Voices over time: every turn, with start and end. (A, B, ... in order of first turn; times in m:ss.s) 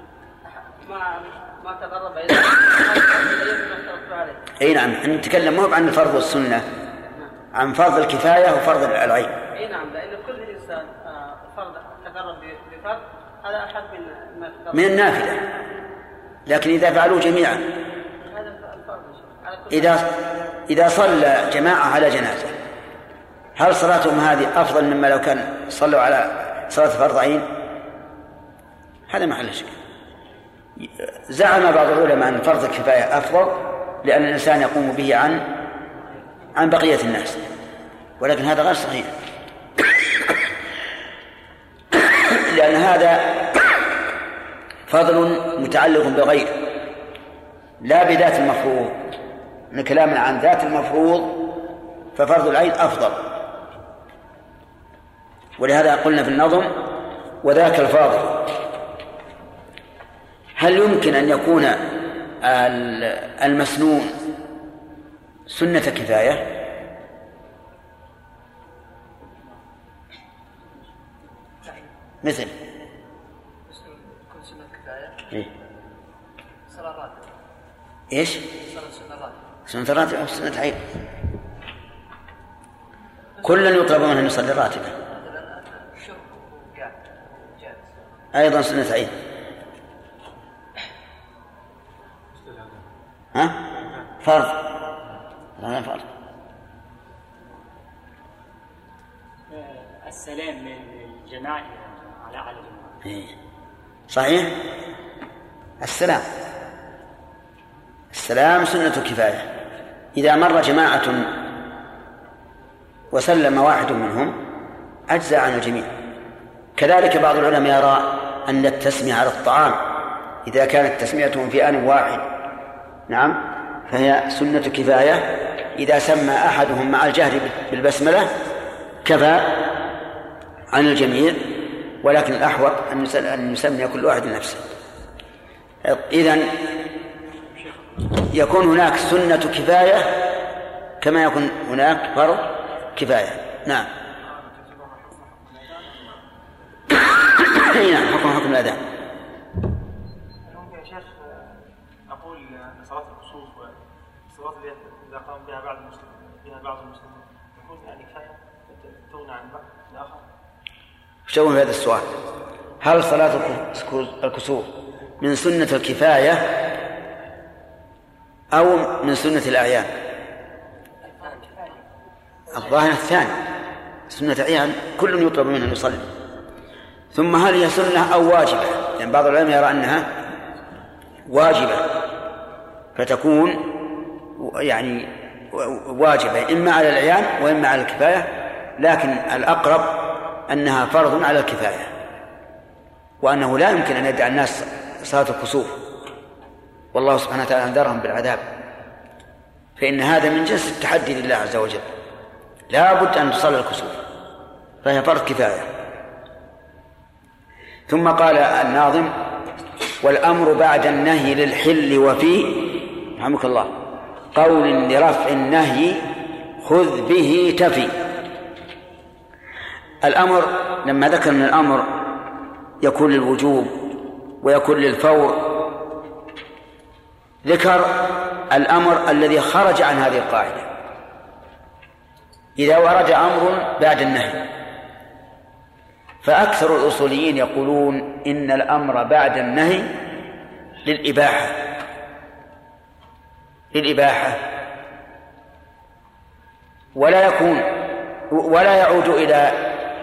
0:00.6-0:04.4 A
0:04.6-0:06.6 B
0:07.5-0:09.4 B
0:09.5-0:14.9 A
0:14.7-0:15.4 B
0:16.5-0:17.7 B
0:18.3-0:20.0 A
0:19.7-0:20.1 B
0:20.7-0:22.5 B
0:23.6-0:27.5 B
0:29.1-0:29.7 B
0:30.8-0:35.5 B
0:36.5-0:37.4 B
0:38.2-0:39.1 B
0:42.3-0:43.7 B
0:44.9-0:46.6 B
0:47.8-0:49.0 B
0:49.7-0:51.4 B
0:52.2-0:53.2 B
0:55.6-0:56.8 B
0:57.4-0:58.5 B
1:00.6-1:01.9 B
1:02.4-1:04.1 B
1:05.5-1:06.5 B
1:12.2-1:12.5 B
1:13.7-1:15.2 C
1:16.7-1:17.3 C
1:18.1-1:18.4 B
1:18.6-1:19.4 C
1:19.7-1:20.8 B
1:23.4-1:24.9 B
1:25.1-1:27.9 C
1:28.3-1:29.1 B
1:32.3-1:32.8 D
1:33.3-1:33.6 B
1:33.7-1:34.1 D
1:34.2-1:34.6 B
1:35.6-1:36.0 B
1:39.5-1:43.0 E
1:44.1-1:44.6 B
1:45.8-1:46.2 B
1:48.1-1:49.5 B
1:50.1-1:51.3 B
1:53.1-1:54.4 B
1:55.1-1:55.9 B
1:56.8-1:59.9 B
2:00.4-2:02.3 B
2:03.1-2:08.3 B
2:09.0-2:09.7 B
2:10.7-2:14.6 B
2:15.8-2:16.7 B
2:18.2-2:20.2 B
2:21.0-2:23.9 B
2:24.2-2:26.2 D
2:27.5-2:28.8 B
2:30.5-2:31.6 D
2:32.1-2:33.7 D
2:34.3-2:40.2 D
2:41.3-2:42.1 B
2:42.8-2:44.7 B
2:45.2-2:46.6 B
2:48.5-2:49.9 B
2:52.5-2:53.4 B
2:54.1-2:56.1 B
2:57.1-3:00.1 B
3:01.3-3:01.9 B
3:02.9-3:03.7 B
3:04.4-3:11.9 B
3:13.2-3:15.8 B
3:16.9-3:18.4 B
3:19.8-3:21.9 B
3:22.7-3:24.0 B
3:24.8-3:25.7 B
3:27.9-3:29.1 B
3:30.0-3:33.7 B
3:34.3-3:36.1 B
3:36.6-3:37.9 B
3:40.0-3:42.0 B
3:42.8-3:43.7 B
3:44.4-3:45.6 B
3:47.4-3:50.7 B
3:52.6-3:54.4 B
3:56.2-3:59.9 B
4:00.8-4:01.6 B
4:03.7-4:04.4 B
4:07.0-4:09.8 B